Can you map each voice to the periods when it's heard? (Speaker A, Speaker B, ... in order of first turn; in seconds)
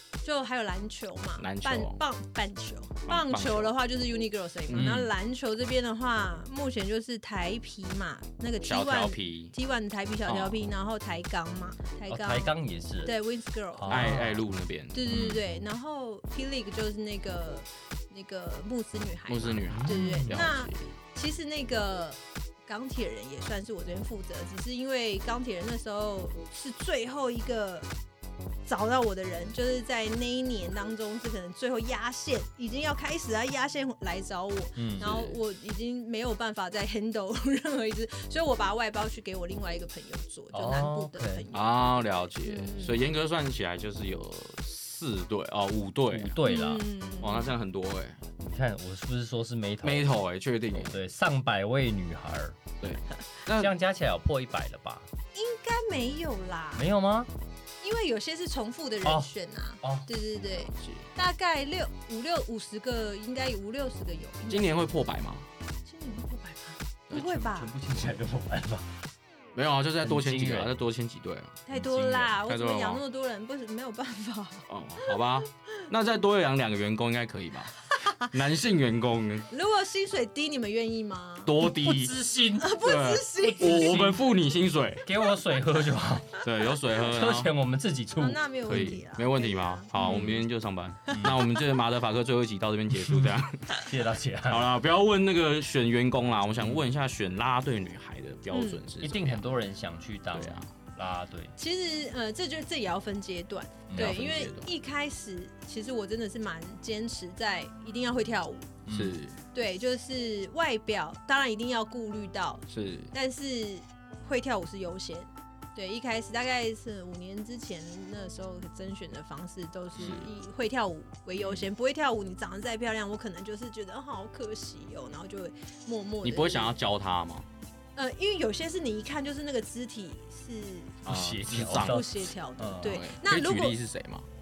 Speaker A: 0.2-14.2, 14.9-27.9, 28.6-43.0, 46.4-47.5, 55.3-56.9, 57.8-64.9, 65.8-67.7, 71.7-75.2, 77.9-78.3, 79.5-81.6, 82.6-84.2, 88.2-90.4, 91.0-91.5, 98.5-98.8, 101.5-108.8, 109.5-126.8, 128.0-131.0, 131.7-133.8
Speaker B: 1.4-2.0, 3.1-3.7, 4.7-5.1, 8.7-9.5, 10.3-10.6, 13.9-15.4, 19.3-20.9, 35.0-35.4, 41.5-46.4, 47.2-48.2, 49.8-51.0, 52.8-53.7, 60.6-61.1, 64.5-65.5, 69.5-71.6, 72.2-73.0, 74.7-79.5, 81.4-82.1, 82.8-85.1, 86.4-87.5, 88.7-93.9, 94.5-99.4, 100.3-100.7, 103.9-104.7, 108.9-109.4, 112.7-113.1, 120.0-120.3, 121.4-121.7, 126.2-127.5, 131.0-132.1, 132.8-134.2
Speaker C: 4.7-5.1, 12.1-13.2, 13.7-14.4, 15.1-15.3, 19.7-20.5, 34.8-35.1, 40.5-41.4, 46.1-46.9, 48.4-50.1, 50.7-52.7, 53.5-55.0, 56.8-57.3, 59.0-59.3, 59.8-60.1, 67.1-69.0, 70.0-70.7, 71.7-72.3, 81.6-82.8, 83.5-84.2, 85.0-86.4, 87.0-88.4, 90.0-90.4, 91.1-91.4, 93.0-94.7, 99.0-101.5, 103.9-104.2, 108.8-109.2, 131.0-133.0